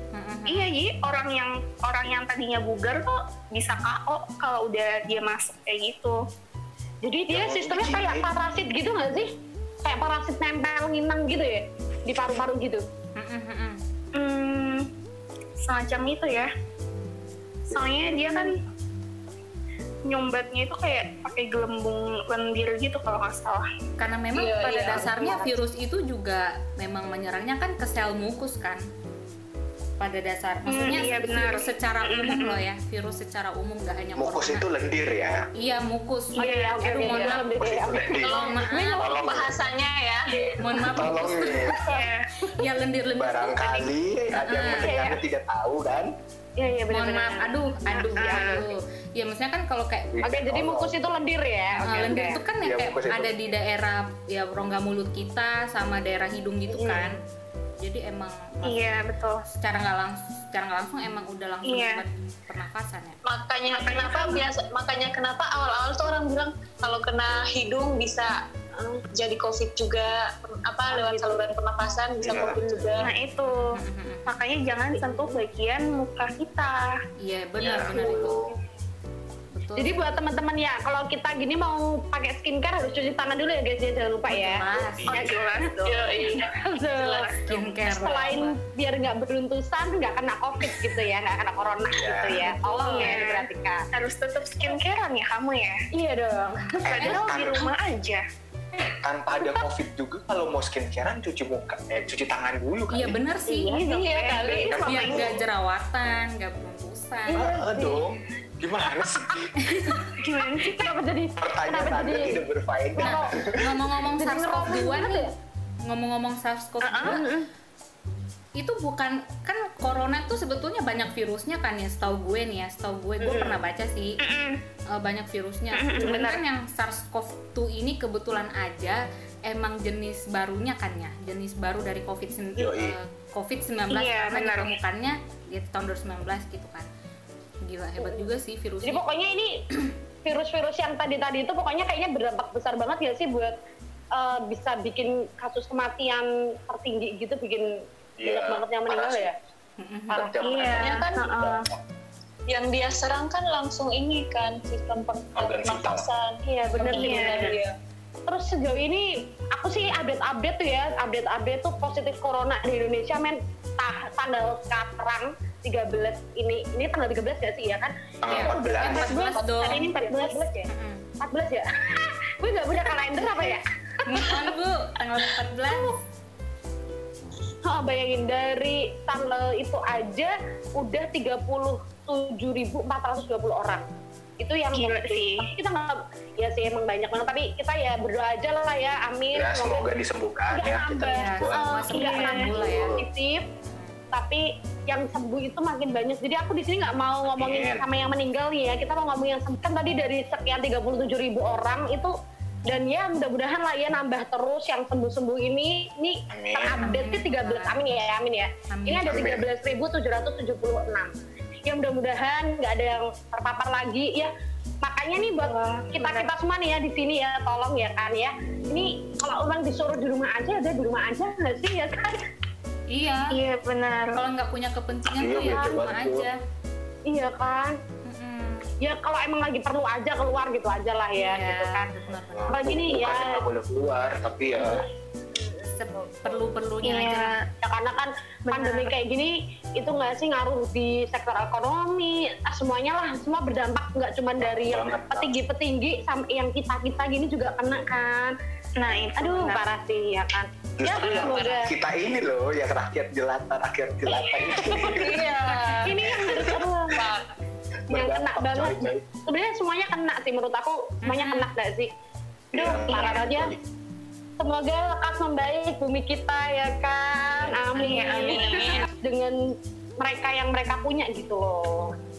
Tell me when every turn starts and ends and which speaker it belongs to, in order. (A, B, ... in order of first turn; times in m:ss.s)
0:00.1-0:00.7 A
0:00.5-0:06.2 B
0:07.0-0:09.3 C
0:07.3-0:08.3 D
0:09.8-0:12.8 C
0:13.2-0:13.8 A
0:14.1-0:14.9 B
0:15.6-0:16.5 B
0:17.7-0:18.6 B
0:20.0-0:23.6 B
0:24.0-0:28.8 A
0:24.3-0:25.5 E
0:30.0-0:34.6 A
0:30.7-0:32.6 B
0:34.2-0:35.4 D
0:35.6-0:37.4 A
0:36.4-0:38.2 C
0:36.4-0:37.4 B
0:37.6-0:39.6 D
0:38.2-0:40.6 E
0:38.3-0:39.1 A
0:40.4-0:40.9 C
0:40.6-0:41.7 A
0:40.9-0:41.8 D
0:41.9-0:42.3 B
0:42.5-0:43.8 A
0:43.1-0:46.1 D
0:44.4-0:44.9 A
0:44.8-0:45.2 C
0:46.6-0:48.7 C
0:46.9-0:50.1 A
0:47.9-0:48.6 B
0:50.1-0:51.0 D
0:50.2-0:52.4 C
0:51.8-0:57.2 A
0:52.6-0:53.4 D
0:56.7-0:57.2 C
0:57.8-0:58.8 A
0:58.6-0:59.4 B
0:59.5-1:03.2 A
1:01.6-1:02.0 B
1:03.2-1:08.3 E
1:03.7-1:04.4 B
1:08.8-1:09.0 C
1:09.1-1:13.1 E
1:10.9-1:11.4 C
1:12.2-1:12.6 D
1:12.2-1:13.0 C
1:13.0-1:13.6 B
1:13.7-1:14.3 A
1:14.3-1:16.9 B
1:14.9-1:15.4 C
1:17.2-1:18.4 A
1:17.6-1:18.5 D
1:19.5-1:20.2 A
1:19.8-1:33.8 C
1:24.3-1:25.1 A
1:24.7-1:25.3 D
1:25.1-1:26.4 B
1:25.9-1:26.4 E
1:27.0-1:27.3 B
1:27.5-1:27.7 E
1:27.5-1:28.6 A
1:31.9-1:32.6 D
1:32.7-1:33.1 A
1:32.8-1:35.8 B
1:35.9-1:37.0 C
1:36.5-1:37.2 A
1:36.8-1:37.7 D
1:36.8-1:38.2 B
1:39.0-1:43.2 D
1:39.4-1:39.6 C
1:42.9-1:43.8 A
1:43.5-1:44.8 B
1:43.7-1:45.2 E
1:43.9-1:44.5 C
1:44.4-1:45.4 D
1:44.8-1:47.4 A
1:47.3-1:48.0 C
1:47.3-1:49.5 D
1:49.6-1:50.0 A
1:50.2-1:51.0 B
1:50.6-1:52.4 C
1:51.4-1:53.7 D
1:53.0-1:53.4 C
1:53.0-1:55.3 A
1:54.1-1:55.3 C
1:55.8-1:57.2 A
1:56.8-1:57.2 B
1:57.0-1:57.5 C
1:58.6-2:04.2 A
2:03.2-2:03.6 C
2:04.2-2:04.6 B
2:04.9-2:16.9 A
2:05.7-2:06.4 B
2:06.0-2:06.3 C
2:12.6-2:13.0 D
2:13.9-2:14.7 B
2:17.6-2:19.0 A
2:18.0-2:18.3 C
2:18.8-2:19.6 C
2:20.2-2:23.5 C
2:24.1-2:29.3 C
2:28.2-2:29.3 D
2:29.8-2:30.3 A
2:30.1-2:31.8 D
2:30.4-2:31.6 B
2:30.7-2:31.4 E
2:32.5-2:37.7 E
2:35.3-2:36.0 D
2:36.4-2:37.5 C
2:36.6-2:37.5 A
2:36.9-2:37.5 B
2:38.3-2:50.7 C
2:48.2-2:49.2 D
2:48.3-2:49.8 A
2:49.4-2:50.5 B
2:50.7-2:51.0 A
2:51.2-2:54.5 C
2:54.0-2:56.0 A
2:55.6-2:55.9 C
2:57.6-3:03.8 C
3:04.4-3:09.8 C
3:04.7-3:05.5 B
3:09.3-3:11.9 D
3:10.5-3:13.4 C
3:11.1-3:13.0 A
3:11.9-3:12.5 B
3:12.5-3:13.0 D
3:13.7-3:14.0 A
3:14.1-3:22.1 C
3:17.2-3:17.8 D
3:22.6-3:31.1 C
3:26.3-3:27.0 D
3:26.8-3:27.8 A
3:28.7-3:29.3 A
3:29.0-3:29.4 D
3:31.6-3:34.3 C
3:34.8-3:42.2 C
3:35.4-3:36.3 B
3:42.9-3:43.3 A
3:43.3-3:44.2 B
3:44.1-3:46.4 A
3:45.1-3:46.3 D
3:45.5-3:45.8 C
3:47.0-3:47.8 C
3:48.0-3:48.7 A
3:48.8-3:52.0 C
3:51.2-3:52.6 A
3:52.3-3:54.8 D
3:52.5-3:53.4 C
3:54.6-3:56.4 C
3:55.8-3:57.4 A
3:56.8-3:57.4 B
3:57.6-4:08.4 C
3:58.5-3:58.9 B
4:04.4-4:05.4 D
4:08.8-4:09.6 B
4:09.2-4:11.7 C
4:10.8-4:15.2 D
4:11.0-4:11.6 E
4:14.6-4:17.3 E
4:15.8-4:17.1 C
4:16.1-4:16.6 D
4:17.9-4:19.1 D
4:17.9-4:21.9 C
4:21.0-4:21.5 A
4:22.5-4:23.6 D
4:22.5-4:23.5 C
4:24.4-4:31.9 C
4:27.3-4:27.6 D
4:27.7-4:28.8 A
4:27.8-4:28.8 B
4:28.2-4:28.8 E